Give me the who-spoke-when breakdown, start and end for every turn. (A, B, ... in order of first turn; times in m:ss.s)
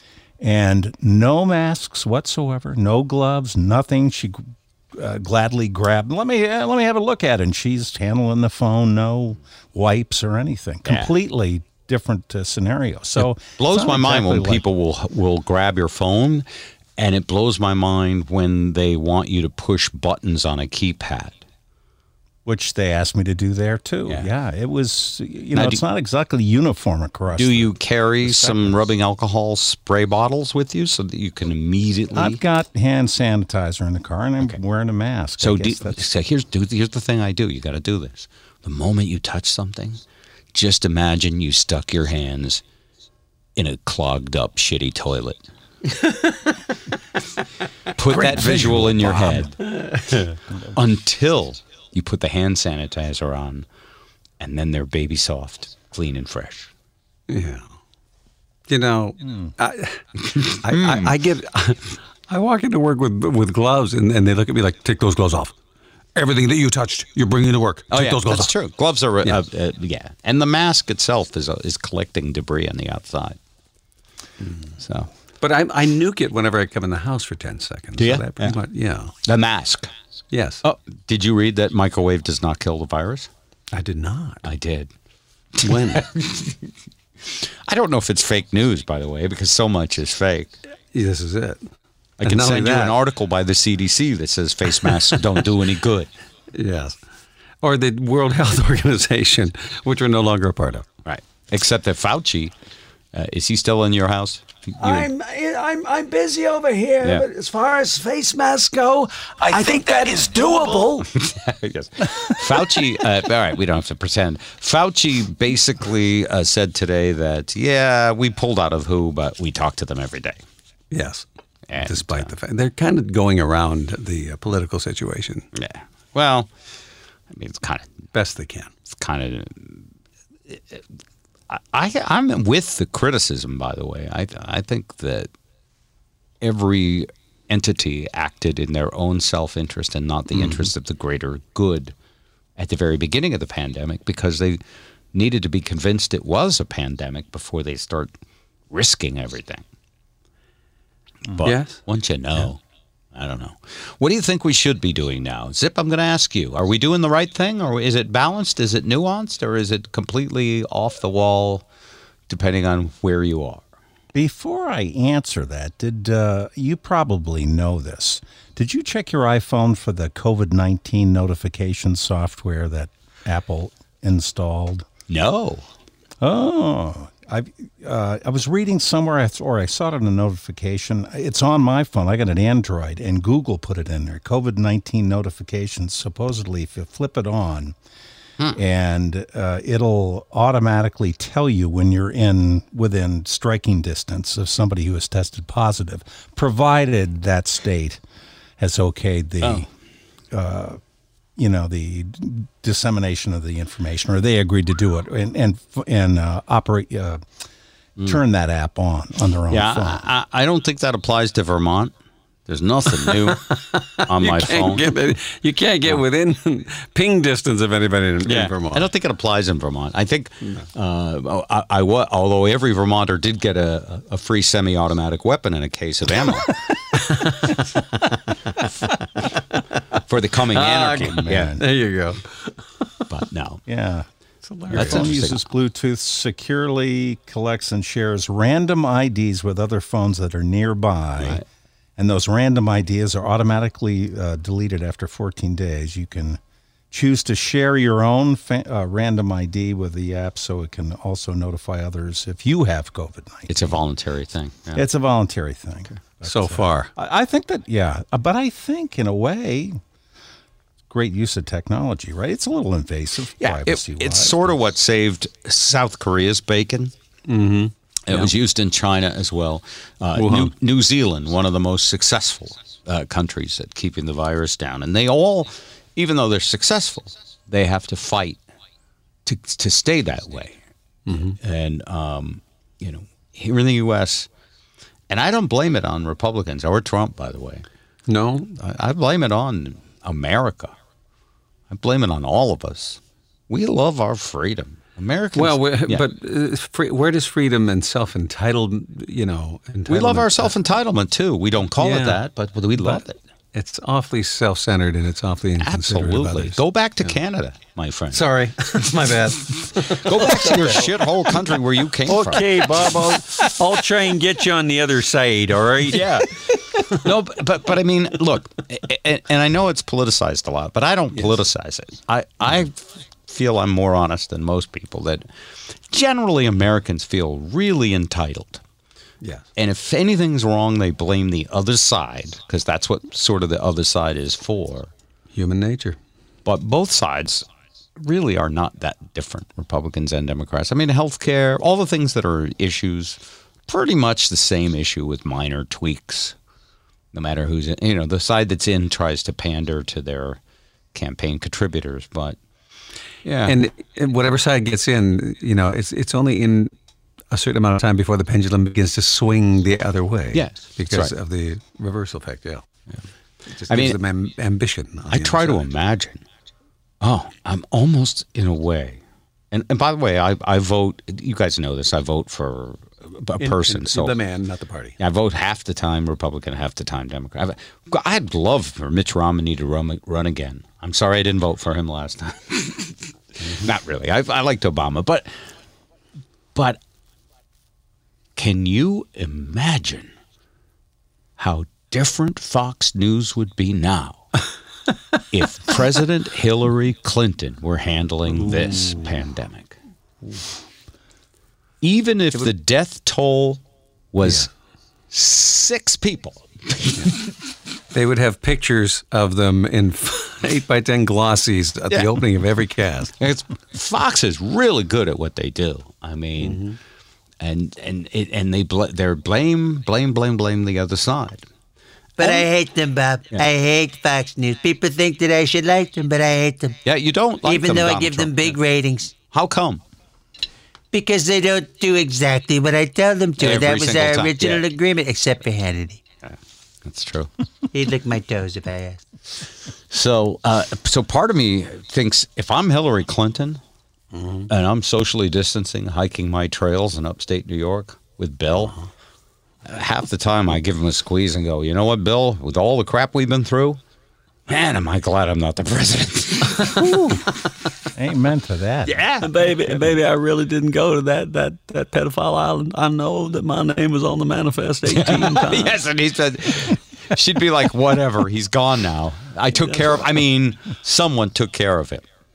0:00.4-0:14.6 A
0:13.2-0:16.4 B
0:17.0-0:21.4 B
0:22.4-0:28.8 A
0:25.5-0:25.8 B
0:27.4-0:32.4 B
0:32.1-0:36.0 A
0:35.4-0:40.0 B
0:40.5-0:42.6 B
0:43.6-0:45.4 B
0:48.0-0:49.8 B
0:48.1-0:49.5 A
0:48.4-0:48.6 C
0:49.8-0:50.3 C
0:50.7-0:53.6 B
0:54.4-0:56.7 B
0:57.3-0:57.6 C
0:58.7-1:05.5 C
1:00.3-1:01.1 B
1:06.1-1:08.5 C
1:07.9-1:13.4 B
1:14.4-1:14.7 C
1:14.8-1:15.1 B
1:15.4-1:19.2 C
1:18.0-1:18.6 B
1:19.2-1:19.9 B
1:20.3-1:20.6 C
1:20.6-1:23.3 B
1:23.7-1:24.4 C
1:24.4-1:24.9 B
1:25.6-1:26.6 B
1:25.6-1:26.0 C
1:27.7-1:30.5 B
1:30.9-1:31.6 C
1:32.2-1:33.0 C
1:32.2-1:36.1 B
1:36.5-1:37.0 C
1:37.6-1:40.8 C
1:41.0-1:42.5 B
1:43.1-1:45.1 B
1:44.8-1:51.1 D
1:51.1-2:00.4 B
2:00.9-2:01.2 C
2:01.7-2:02.3 B
2:01.8-2:05.5 C
2:05.5-2:06.5 B
2:07.3-2:07.9 B
2:08.1-2:08.7 C
2:08.9-2:09.8 B
2:10.5-2:10.8 B
2:11.5-2:15.3 B
2:16.4-2:21.9 B
2:20.3-2:20.7 C
2:22.6-2:24.6 B
2:25.1-2:28.1 B
2:28.7-2:29.6 B
2:31.3-2:32.6 B
2:31.4-2:31.8 C
2:33.1-2:41.6 B
2:42.3-2:43.7 B
2:44.1-2:54.9 A
2:55.1-2:55.6 B
2:56.2-3:07.8 A
3:08.5-3:18.0 A
3:18.6-3:19.7 A
3:20.3-3:20.8 A
3:21.4-3:27.2 A
3:28.0-3:30.0 A
3:29.5-3:31.9 B
3:32.5-3:33.5 B
3:33.0-3:38.9 C
3:34.0-3:35.0 B
3:38.2-3:46.6 B
3:47.0-3:47.8 C
3:50.1-3:51.6 B
3:50.5-3:52.8 C
3:51.0-3:51.6 A
3:53.1-3:53.6 B
3:53.7-3:54.1 A
3:54.4-3:55.2 C
3:54.7-4:01.4 A
3:54.7-3:55.4 B
4:01.2-4:01.4 B
4:02.0-4:06.4 A
4:06.9-4:13.8 A
4:13.5-4:14.8 B
4:14.7-4:19.8 A
4:16.2-4:16.9 C
4:20.9-4:24.5 A
4:23.4-4:26.9 B
4:27.3-4:28.3 C
4:28.1-4:38.4 B
4:30.1-4:30.5 C
4:39.2-4:40.6 B
4:41.1-4:41.4 C
4:41.3-4:44.3 B
4:45.1-4:47.6 B
4:48.1-4:48.5 C
4:48.5-4:50.7 B
4:51.7-4:56.0 B
4:55.3-5:00.5 C
4:59.9-5:03.2 B
5:01.8-5:02.2 C
5:03.5-5:07.2 C
5:05.6-5:08.2 B
5:08.1-5:11.5 C
5:09.9-5:12.8 B
5:12.1-5:16.2 C
5:12.5-5:13.0 A
5:15.9-5:25.3 B
5:25.9-5:28.6 B
5:29.2-5:29.4 C
5:29.6-5:34.9 B
5:35.3-5:36.0 C
5:36.4-5:37.5 B
5:38.0-5:46.4 B
5:47.1-5:50.4 B
5:50.9-5:52.4 B
5:53.2-5:53.5 B
5:53.4-5:56.7 C
5:57.3-6:02.6 C
6:00.3-6:01.1 B
6:03.5-6:05.6 C
6:03.7-6:04.0 B
6:05.1-6:06.2 B
6:07.0-6:14.2 B
6:13.4-6:15.0 C
6:15.0-6:25.3 B
6:28.4-6:30.1 B
6:31.4-6:34.4 B
6:35.3-6:39.8 B
6:38.3-6:39.2 C
6:41.8-6:43.6 B
6:44.1-6:44.5 B
6:44.2-6:44.5 C
6:45.1-6:47.2 B
6:47.9-6:53.1 C
6:53.2-6:56.7 B
6:56.4-6:56.8 C
6:57.4-7:01.4 B
7:02.2-7:06.8 E
7:02.2-7:02.5 B
7:06.8-7:08.6 B
7:07.4-7:09.1 E
7:09.3-7:09.8 B
7:10.9-7:16.0 E
7:13.4-7:14.6 B
7:16.2-7:17.3 B
7:17.7-7:19.0 E
7:19.9-7:23.6 B
7:24.1-7:24.5 C
7:24.5-7:28.7 B
7:29.6-7:33.8 B
7:34.5-7:37.0 B
7:36.8-7:37.2 A
7:37.9-7:39.0 A
7:38.9-7:39.3 B
7:39.2-7:45.8 C
7:44.9-7:52.0 B
7:49.5-7:50.1 C